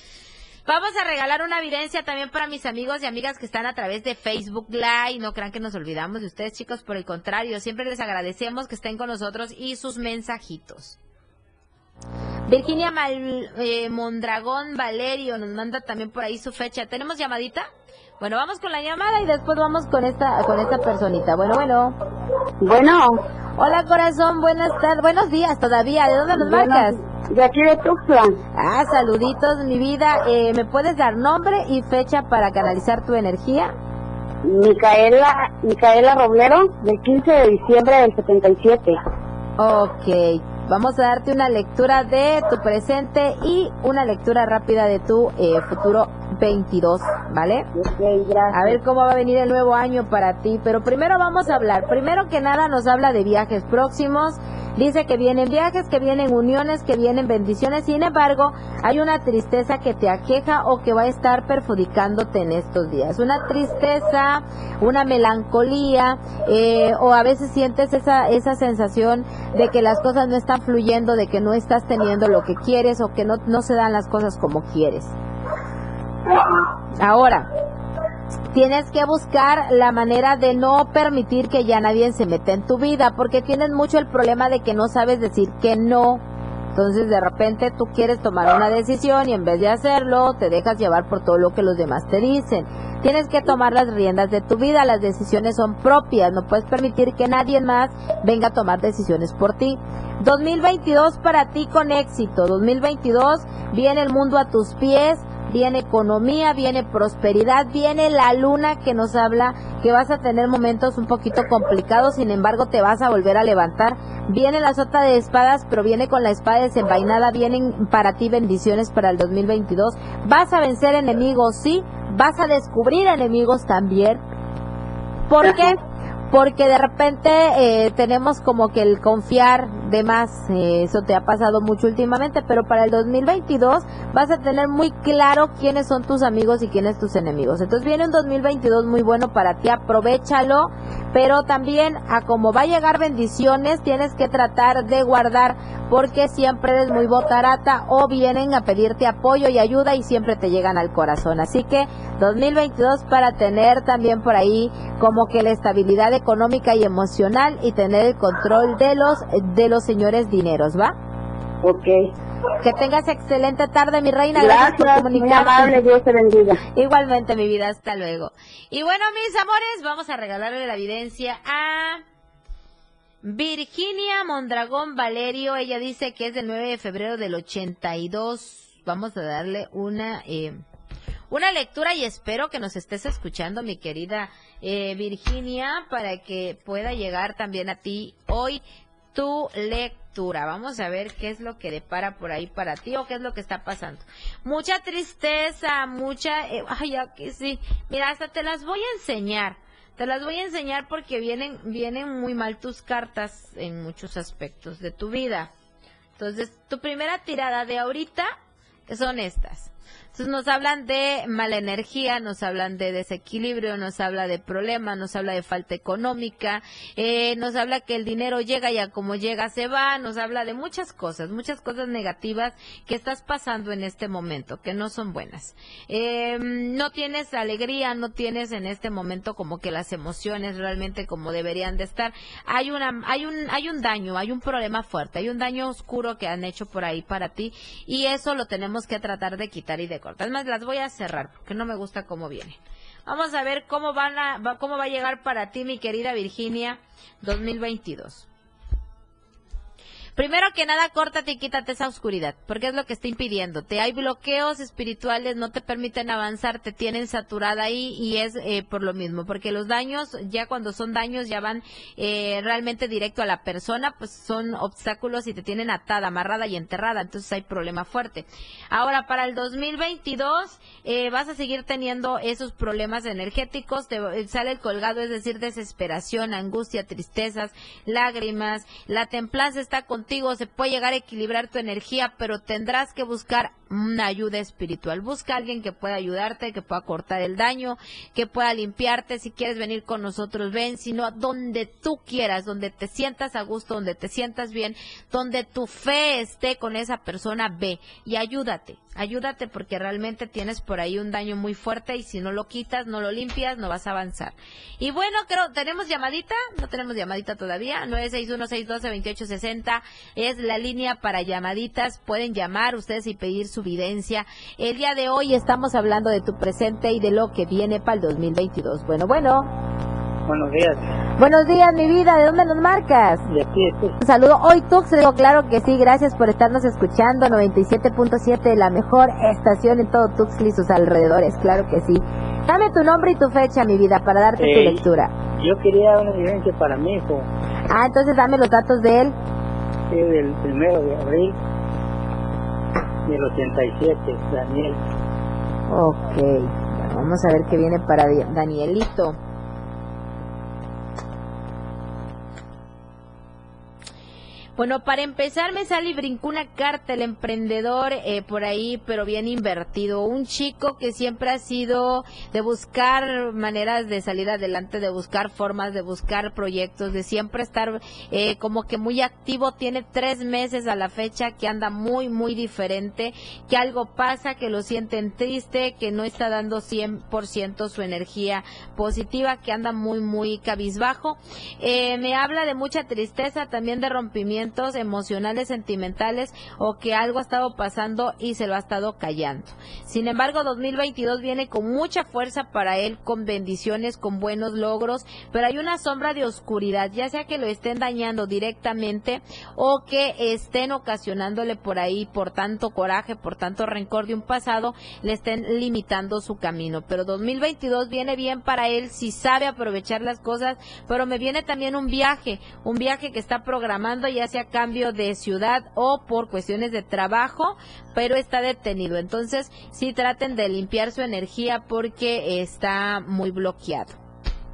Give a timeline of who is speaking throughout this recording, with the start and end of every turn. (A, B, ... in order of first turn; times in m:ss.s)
0:00.6-0:11.0 A
0:12.5-0:17.7 A
0:18.2-0:22.0 A
0:22.6-0:23.2 B
0:23.6-0:27.0 A
0:26.3-0:28.4 B
0:28.5-0:33.7 A
0:34.4-0:39.0 B
0:39.6-0:47.7 A
0:47.7-0:48.8 B
0:48.5-1:15.1 A
1:17.0-1:17.5 A
1:18.5-1:26.2 A
1:26.7-2:04.2 A
2:05.3-2:05.8 A
2:06.3-2:40.9 A
2:41.6-2:42.1 B
2:42.6-2:45.8 A
2:44.4-2:46.6 B
2:46.7-2:52.0 A
2:53.2-3:00.6 A
3:01.3-3:08.6 A
3:09.1-3:25.5 A
3:26.2-3:28.3 A
3:28.9-4:08.3 A
4:10.2-5:19.5 A
5:20.3-5:20.8 C
5:21.2-5:23.2 A
5:23.3-5:24.0 C
5:24.0-5:35.1 A
5:34.4-5:37.3 C
5:37.7-5:39.2 A
5:39.9-5:41.4 C
5:43.0-5:44.8 C
5:45.7-5:49.2 A
5:54.6-7:04.0 A